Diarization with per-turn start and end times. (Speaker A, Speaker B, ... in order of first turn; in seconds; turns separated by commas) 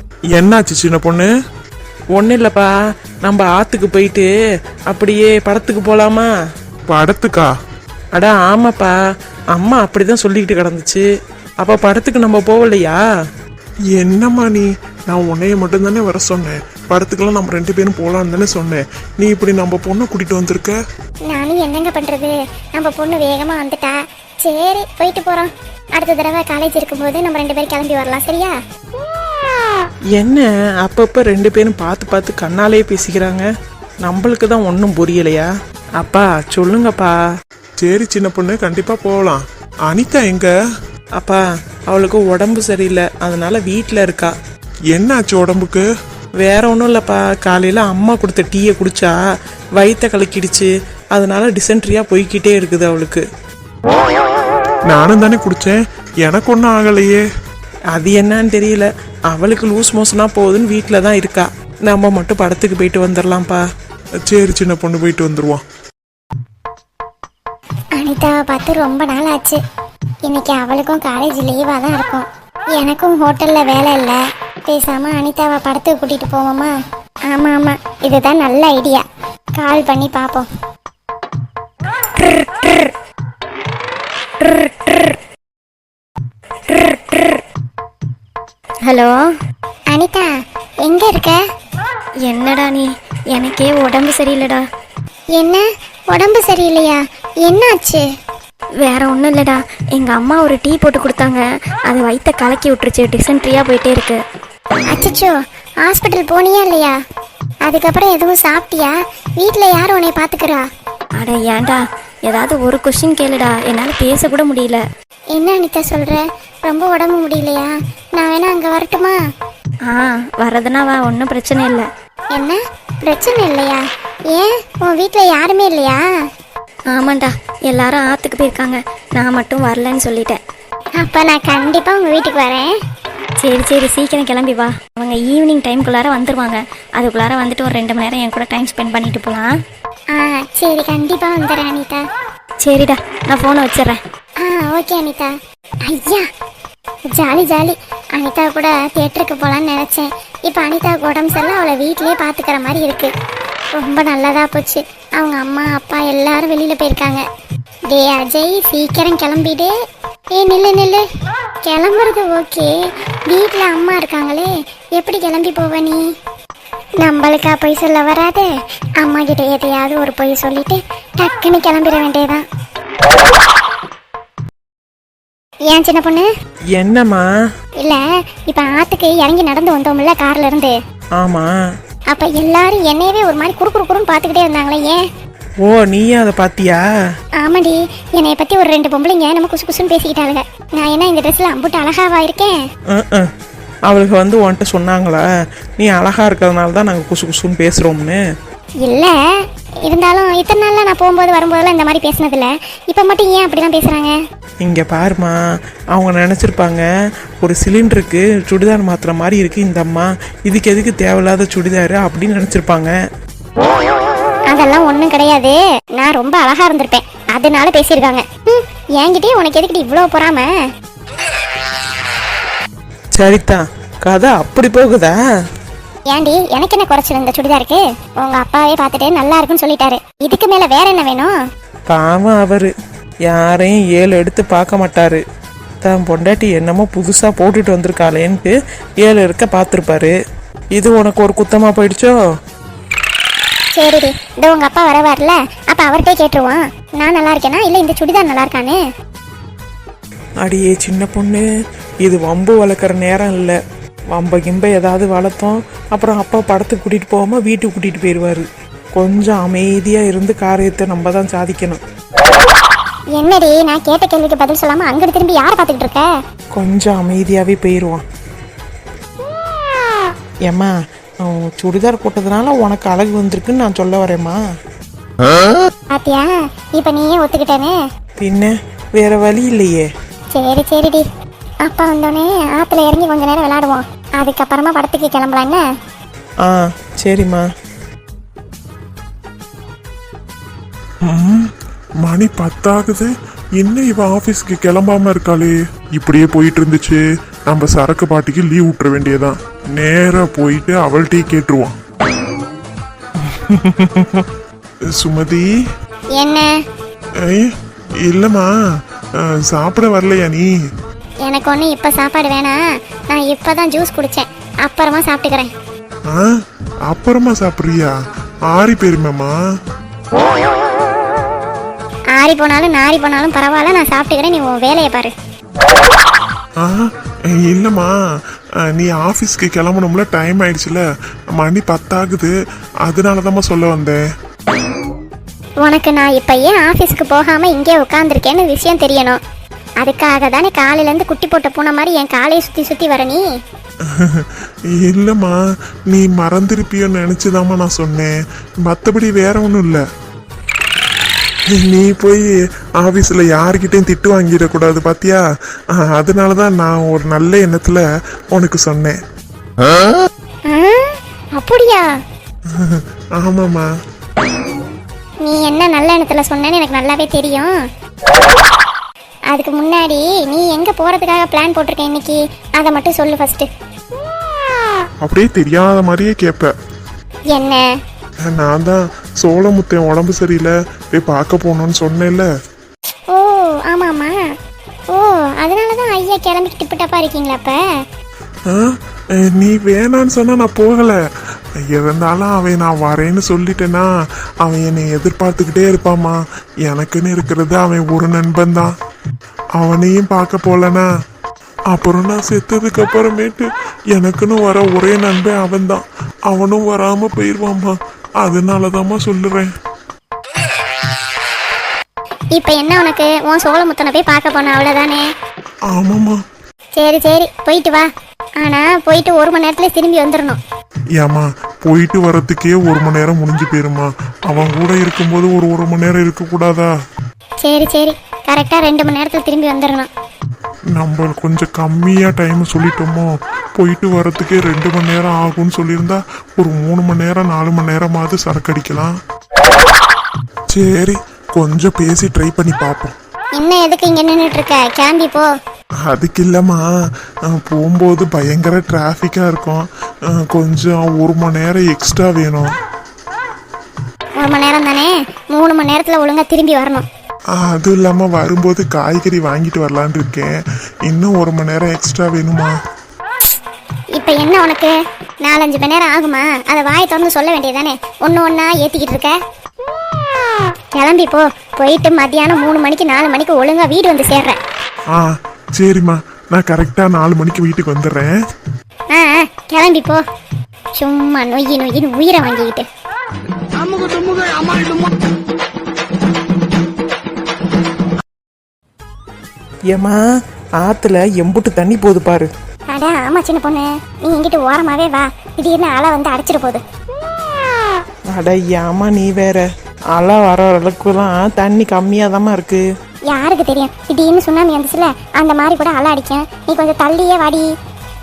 Speaker A: 0.4-1.2, Speaker B: 0.4-1.2, Speaker B: 2.1-2.7, Speaker B: 3.2-4.3, Speaker B: 4.9-6.3, Speaker A: 6.9-7.5, Speaker B: 8.1-8.9, Speaker B: 9.5-11.1, Speaker B: 11.6-13.0, Speaker A: 14.0-20.7, Speaker C: 21.3-28.6, Speaker B: 30.1-33.5, Speaker B: 34.0-37.1, Speaker A: 37.8-40.5, Speaker B: 41.2-44.3, Speaker A: 44.9-45.8, Speaker B: 46.4-49.2, Speaker B: 49.8-53.2, Speaker A: 54.9-57.2, Speaker B: 57.9-63.6, Speaker A: 64.3-65.6, Speaker C: 68.0-69.6, Speaker C: 70.2-76.7, Speaker C: 77.3-79.0, Speaker C: 79.5-80.5, Speaker D: 82.2-82.9, Speaker D: 84.4-85.2, Speaker D: 86.7-87.4, Speaker D: 88.8-89.2, Speaker C: 89.9-90.3, Speaker C: 90.8-91.4, Speaker D: 92.2-94.6, Speaker C: 95.3-98.0, Speaker D: 98.8-104.2, Speaker C: 104.9-106.9, Speaker C: 107.6-110.6, Speaker D: 111.2-114.8, Speaker C: 115.3-119.2, Speaker D: 119.8-121.9, Speaker C: 122.3-126.0, Speaker D: 126.9-130.4, Speaker C: 131.0-132.7, Speaker D: 133.4-139.5, Speaker C: 140.1-142.0, Speaker D: 142.6-144.0, Speaker C: 144.4-145.3, Speaker C: 145.8-146.2, Speaker C: 147.1-153.1, Speaker C: 153.8-157.2, Speaker C: 157.9-159.7, Speaker C: 160.3-161.0, Speaker C: 161.6-162.7, Speaker C: 163.3-166.0, Speaker C: 167.0-172.4, Speaker C: 175.7-176.3, Speaker B: 176.7-177.2, Speaker C: 177.8-180.7, Speaker B: 181.2-181.5, Speaker C: 182.1-185.0, Speaker B: 185.6-186.9, Speaker C: 187.4-192.6, Speaker B: 192.9-193.3, Speaker B: 193.9-195.2, Speaker B: 195.8-198.2, Speaker C: 198.8-199.1, Speaker C: 199.8-204.2, Speaker B: 204.6-205.4, Speaker B: 205.9-206.8, Speaker B: 207.4-212.9, Speaker C: 214.5-220.5, Speaker B: 223.1-225.2, Speaker C: 226.1-231.3, Speaker B: 231.9-232.7, Speaker B: 233.3-235.2, Speaker B: 235.8-240.1, Speaker B: 240.7-242.1, Speaker C: 243.8-248.8, Speaker B: 250.4-251.4, Speaker B: 252.0-253.6, Speaker B: 254.1-258.4, Speaker B: 259.0-261.8, Speaker C: 263.1-266.1, Speaker B: 266.6-268.0, Speaker B: 270.5-274.4, Speaker C: 275.9-277.8, Speaker B: 278.2-279.9, Speaker C: 280.3-281.1, Speaker C: 281.6-285.6, Speaker B: 286.4-287.4, Speaker A: 291.1-291.5, Speaker A: 292.0-301.7, Speaker A: 303.2-304.2, Speaker A: 305.0-305.5, Speaker C: 306.1-306.5, Speaker A: 308.1-308.5, Speaker A: 309.5-310.5, Speaker C: 311.2-315.5, Speaker A: 316.9-317.9, Speaker A: 318.5-319.3, Speaker C: 322.1-325.1, Speaker A: 326.6-327.9, Speaker A: 328.7-330.8, Speaker A: 331.4-332.3, Speaker A: 332.9-334.0, Speaker C: 335.6-339.2, Speaker C: 339.8-343.2, Speaker A: 343.9-345.4, Speaker A: 345.9-349.8, Speaker A: 351.5-355.2, Speaker A: 355.7-357.8, Speaker A: 358.3-359.0, Speaker C: 360.5-361.9, Speaker A: 362.5-363.6, Speaker C: 365.2-367.5, Speaker C: 369.3-373.5, Speaker A: 375.0-376.5, Speaker C: 377.3-377.6, Speaker A: 378.3-382.3, Speaker C: 383.1-384.2, Speaker C: 384.9-387.6, Speaker A: 389.3-391.0, Speaker A: 391.7-393.9, Speaker A: 394.4-398.7, Speaker A: 399.6-400.9, Speaker A: 401.7-409.5, Speaker C: 412.4-415.1, Speaker A: 415.7-416.2, Speaker C: 416.8-417.9, Speaker C: 418.4-420.4, Speaker A: 421.0-426.7, Speaker C: 427.4-429.9, Speaker A: 430.8-438.9, Speaker A: 440.5-442.9, Speaker C: 443.4-445.3, Speaker A: 445.9-446.6, Speaker A: 447.3-452.5, Speaker C: 454.2-456.9, Speaker A: 457.4-460.3, Speaker A: 460.9-462.5, Speaker C: 463.9-469.2, Speaker C: 470.7-474.4, Speaker A: 474.9-478.1, Speaker C: 478.9-480.0, Speaker C: 480.8-482.6, Speaker B: 489.7-490.0, Speaker B: 490.6-492.3, Speaker C: 492.7-496.6, Speaker B: 498.1-502.6, Speaker C: 503.1-507.5